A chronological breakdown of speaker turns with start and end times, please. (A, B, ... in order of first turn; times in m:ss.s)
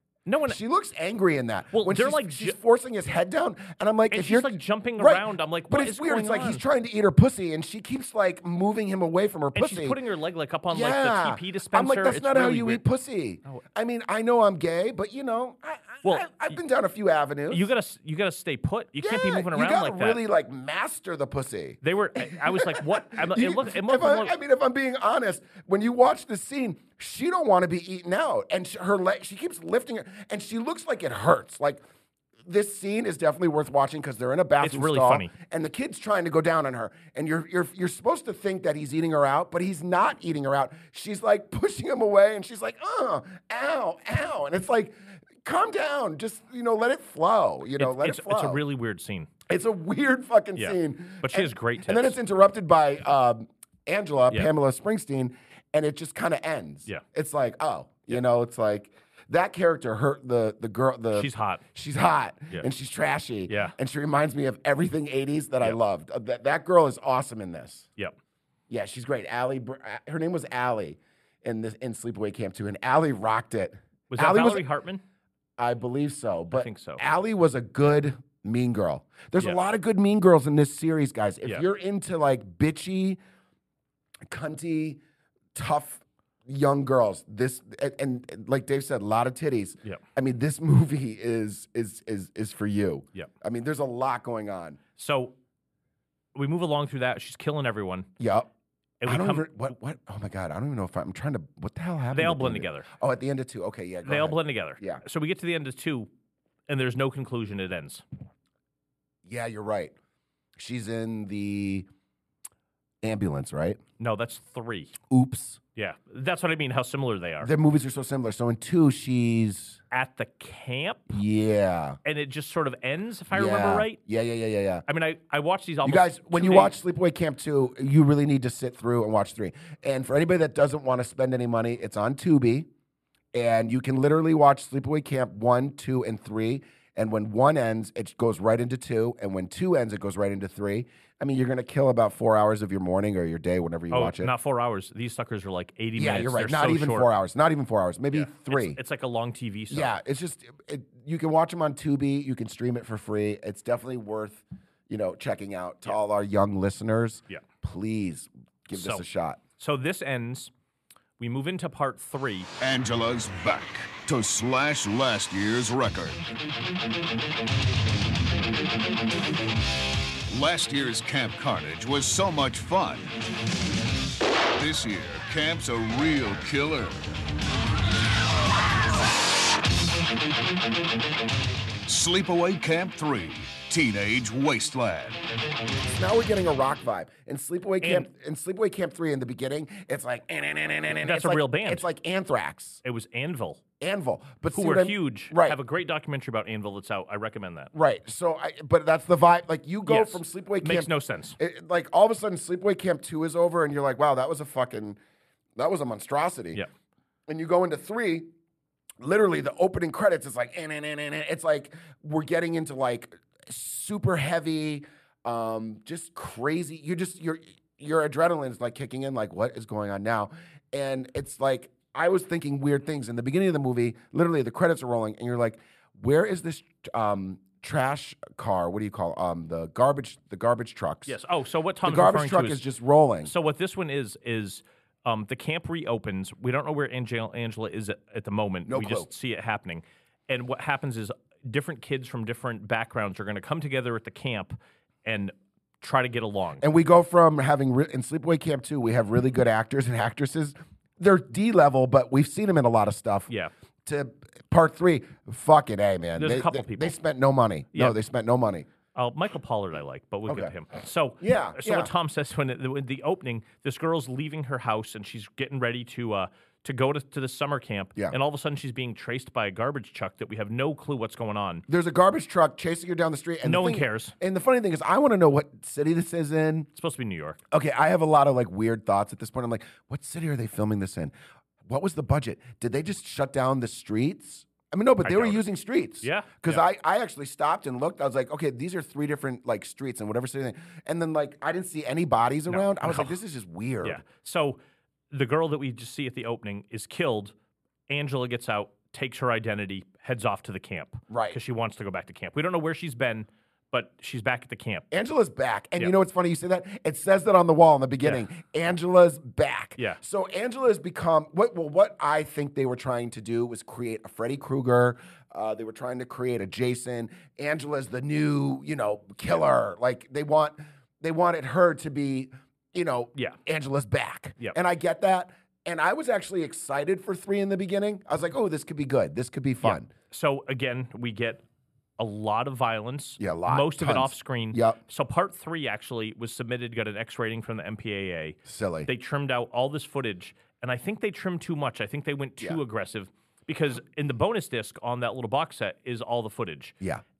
0:00.3-0:00.6 A
0:00.5-0:10.0 B
0:01.7-0:02.6 A
0:04.1-0:06.6 A
0:09.6-0:12.8 A
0:10.7-0:17.7 B
0:16.0-0:16.6 A
0:17.5-0:20.2 A
0:19.0-0:31.8 B
0:21.8-0:24.4 A
0:32.4-0:48.6 B
0:34.6-0:35.3 A
0:47.8-0:49.3 A
0:49.5-1:07.9 B
0:50.6-0:52.2 A
1:01.1-1:01.6 A
1:03.5-1:03.8 A
1:08.7-1:14.6 B
1:14.1-1:15.0 A
1:15.6-1:23.2 B
1:16.5-1:17.0 A
1:24.3-1:25.0 B
1:25.5-1:34.8 B
1:35.0-1:35.4 A
1:36.4-1:38.1 A
1:38.2-1:38.5 B
1:39.0-1:39.6 A
1:39.0-1:45.0 B
1:42.1-1:42.9 A
1:44.0-1:46.1 A
1:46.7-1:48.0 A
1:49.2-1:49.9 B
1:50.6-1:51.9 B
1:53.0-1:53.8 B
1:54.0-1:55.0 A
1:55.1-1:55.6 B
1:55.8-1:57.5 A
1:57.4-1:59.8 B
1:59.9-2:01.2 A
2:01.1-2:02.0 B
2:02.0-2:04.0 A
2:03.3-2:04.8 B
2:04.9-2:06.7 A
2:05.8-2:12.7 B
2:13.3-2:24.3 B
2:23.9-2:27.1 A
2:26.0-2:28.8 B
2:28.1-2:30.0 A
2:29.7-2:39.4 B
2:38.7-2:39.0 A
2:39.6-2:40.5 A
2:41.2-2:42.5 A
2:42.6-2:46.3 C
2:50.3-2:53.1 C
2:54.5-2:57.1 C
3:01.9-3:05.2 C
3:05.8-3:12.8 B
3:07.8-3:08.1 A
3:11.0-3:11.9 A
3:12.8-3:13.6 A
3:13.8-3:15.6 B
3:14.5-3:17.7 A
3:17.7-3:25.0 B
3:19.9-3:21.4 A
3:25.6-3:26.6 B
3:27.3-3:28.3 B
3:29.0-3:51.2 B
3:51.1-3:52.7 A
3:51.8-3:53.3 B
3:53.2-4:06.6 A
3:58.7-3:59.1 B
4:06.6-4:13.3 B
4:13.8-4:18.7 B
4:16.2-4:17.0 A
4:18.9-4:31.6 A
4:20.3-4:20.5 B
4:21.2-4:21.9 B
4:31.7-4:36.7 B
4:33.4-4:34.2 A
4:36.8-4:37.4 A
4:37.5-4:41.1 B
4:41.7-4:54.0 B
4:45.0-4:45.4 A
4:46.0-4:46.6 A
4:52.5-4:53.1 A
4:53.8-4:54.6 A
4:55.1-4:57.3 A
4:57.9-5:04.9 A
5:01.1-5:01.4 B
5:04.9-5:29.9 B
5:29.6-5:31.4 A
5:32.0-5:46.8 A
5:33.2-5:34.8 B
5:38.5-5:38.9 B